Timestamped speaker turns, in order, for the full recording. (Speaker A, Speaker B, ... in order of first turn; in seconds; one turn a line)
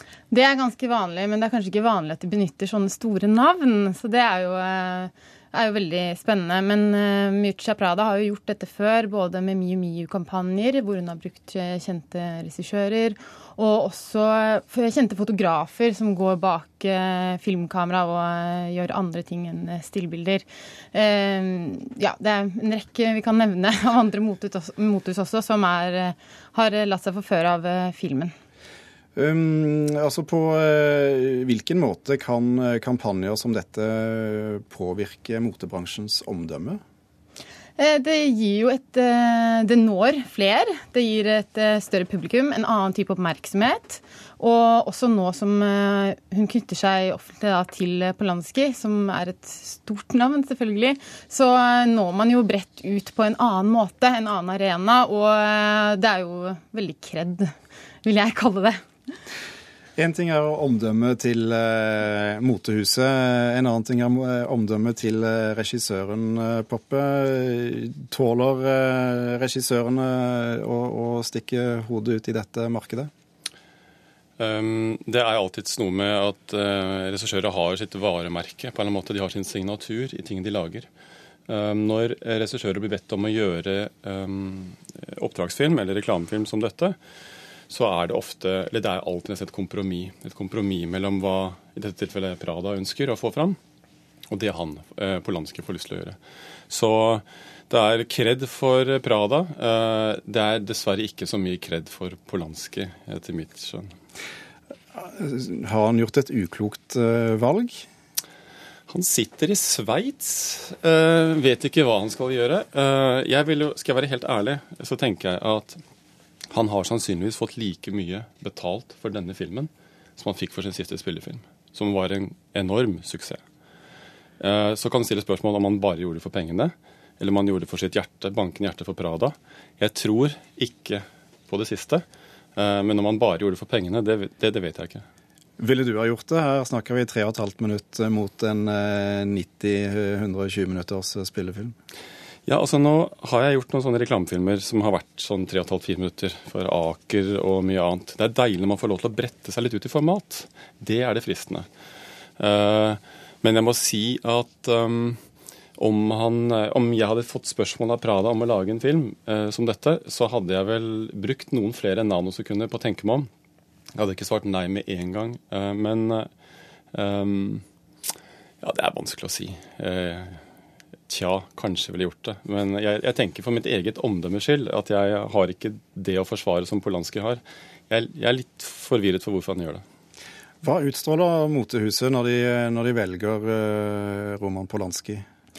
Speaker A: 0.3-28.3
Speaker B: 29.1-36.8
Speaker A: 37.8-57.5
Speaker A: 58.0-58.8
Speaker B: 60.0-73.1
Speaker C: 74.4-80.9
Speaker C: 81.5-87.0
Speaker C: 87.7-93.6
Speaker C: 94.3-96.2
Speaker C: 96.7-103.9
Speaker B: 104.9-107.8
Speaker C: 108.9-115.8
Speaker C: 116.5-123.4
Speaker C: 124.4-132.0
Speaker C: 132.6-135.0
Speaker B: 135.6-141.7
Speaker C: 142.4-151.7
Speaker C: 152.4-155.2
Speaker C: 155.8-163.3
Speaker C: 163.9-166.3
Speaker C: 166.9-167.6
Speaker C: 168.6-170.4
Speaker C: 171.1-179.8
Speaker B: 180.6-185.2